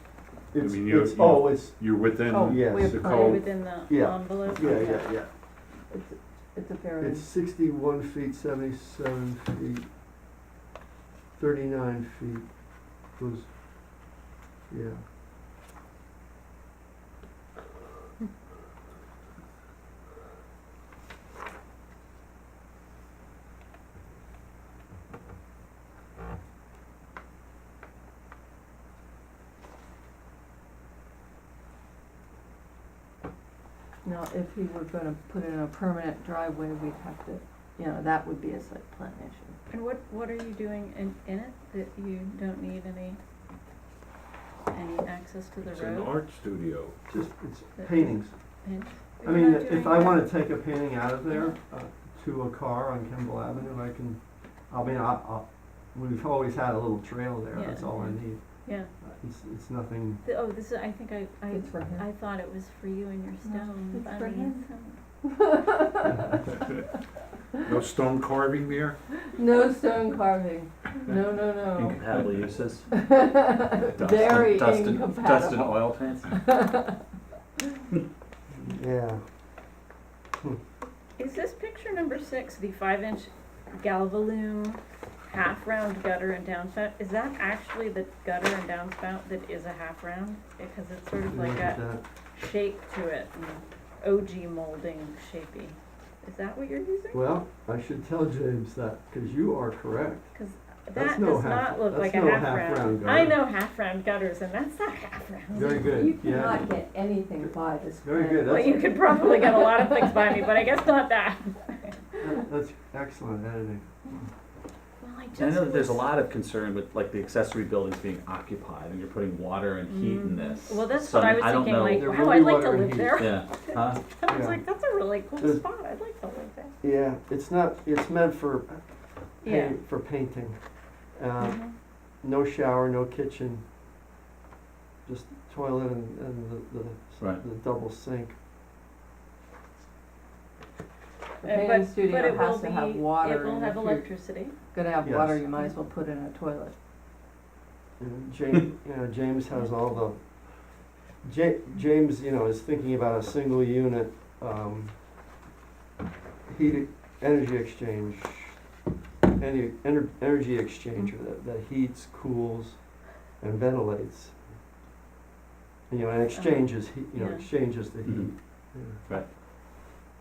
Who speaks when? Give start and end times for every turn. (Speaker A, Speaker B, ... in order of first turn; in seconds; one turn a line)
Speaker A: 0.5-3.1
Speaker B: 0.6-3.4
Speaker C: 2.3-3.5
Speaker D: 3.0-4.9
Speaker A: 3.7-5.3
Speaker C: 4.6-5.1
Speaker C: 5.9-7.3
Speaker A: 7.0-9.9
Speaker A: 11.4-13.5
Speaker A: 14.7-15.0
Speaker C: 34.0-39.6
Speaker D: 39.7-43.2
Speaker D: 44.7-46.1
Speaker B: 45.6-47.0
Speaker A: 47.1-48.4
Speaker D: 47.8-50.3
Speaker A: 49.2-60.2
Speaker D: 51.3-51.5
Speaker D: 57.5-58.9
Speaker D: 60.2-65.0
Speaker C: 61.5-62.1
Speaker C: 63.5-64.7
Speaker C: 65.2-66.7
Speaker B: 67.7-69.0
Speaker C: 69.3-72.1
Speaker E: 71.7-72.9
Speaker C: 72.9-77.0
Speaker E: 73.7-76.4
Speaker A: 78.5-79.2
Speaker D: 81.2-97.2
Speaker A: 91.3-92.0
Speaker A: 97.1-100.3
Speaker D: 100.3-106.0
Speaker A: 101.0-103.4
Speaker A: 105.5-106.7
Speaker C: 105.8-109.8
Speaker A: 108.0-108.8
Speaker D: 108.5-112.2
Speaker A: 112.2-114.0
Speaker D: 115.0-116.1
Speaker E: 115.3-122.1
Speaker D: 119.9-126.7
Speaker A: 121.9-123.3
Speaker E: 123.2-124.0
Speaker A: 124.3-124.7
Speaker A: 126.8-130.6
Speaker D: 129.4-129.8
Speaker A: 131.1-133.6
Speaker D: 131.4-131.7
Speaker A: 135.1-138.4
Speaker D: 141.4-144.6
Speaker C: 141.4-144.1
Speaker C: 144.7-146.7
Speaker A: 145.0-145.4
Speaker A: 148.0-155.0
Speaker A: 156.5-158.6
Speaker A: 159.4-164.4
Speaker A: 165.9-169.0
Speaker D: 166.3-167.5
Speaker E: 168.0-168.3